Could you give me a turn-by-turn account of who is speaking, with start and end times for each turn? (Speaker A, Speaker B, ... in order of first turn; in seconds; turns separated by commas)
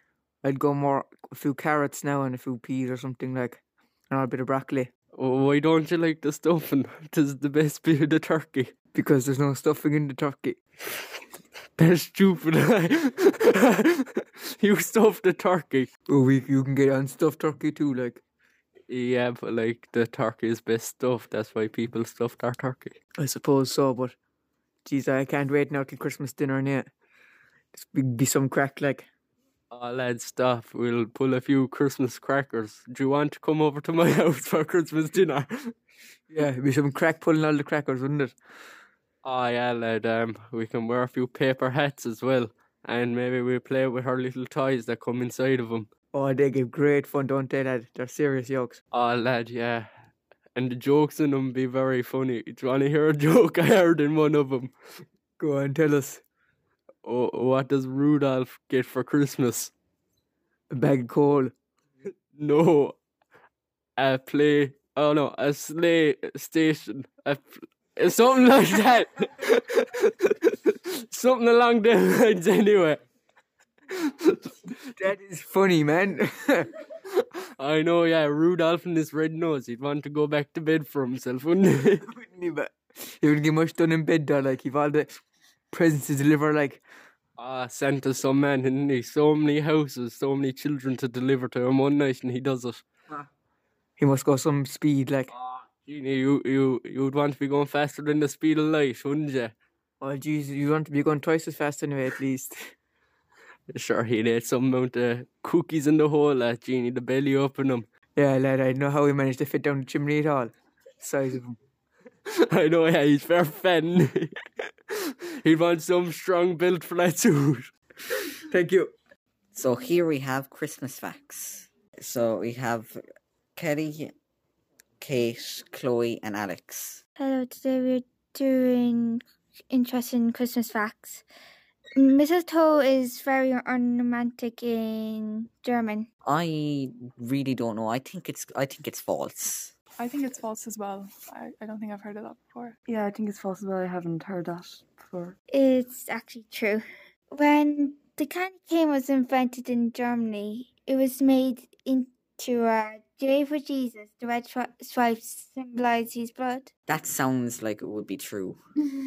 Speaker A: 0.4-3.6, Speaker A: 4.1-4.9, Speaker B: 5.1-8.7, Speaker A: 8.9-10.6, Speaker B: 11.8-15.9, Speaker A: 16.1-18.2, Speaker B: 18.9-22.9, Speaker A: 23.2-24.1, Speaker A: 24.9-26.9, Speaker A: 27.7-29.1, Speaker B: 29.7-35.7, Speaker A: 36.3-38.3, Speaker B: 39.2-45.9, Speaker A: 46.1-48.8, Speaker B: 48.9-49.9, Speaker B: 50.5-54.7, Speaker A: 55.4-56.2, Speaker B: 57.0-59.7, Speaker A: 60.7-61.5, Speaker B: 62.3-63.0, Speaker B: 64.0-73.0, Speaker A: 75.0-76.7, Speaker B: 77.5-82.0, Speaker A: 82.1-85.1, Speaker A: 85.7-86.8, Speaker B: 87.4-92.8, Speaker A: 94.0-95.3, Speaker B: 95.5-99.5, Speaker A: 100.0-102.7, Speaker B: 103.7-107.8, Speaker A: 108.2-111.5, Speaker B: 112.5-114.4, Speaker B: 115.4-117.7, Speaker A: 118.5-118.9, Speaker C: 119.5-123.0, Speaker C: 123.5-124.1, Speaker C: 125.0-127.0, Speaker D: 127.2-131.2, Speaker D: 132.0-136.1, Speaker C: 136.2-139.7, Speaker E: 140.0-142.8, Speaker F: 142.9-145.3, Speaker D: 145.5-156.7, Speaker C: 156.9-158.6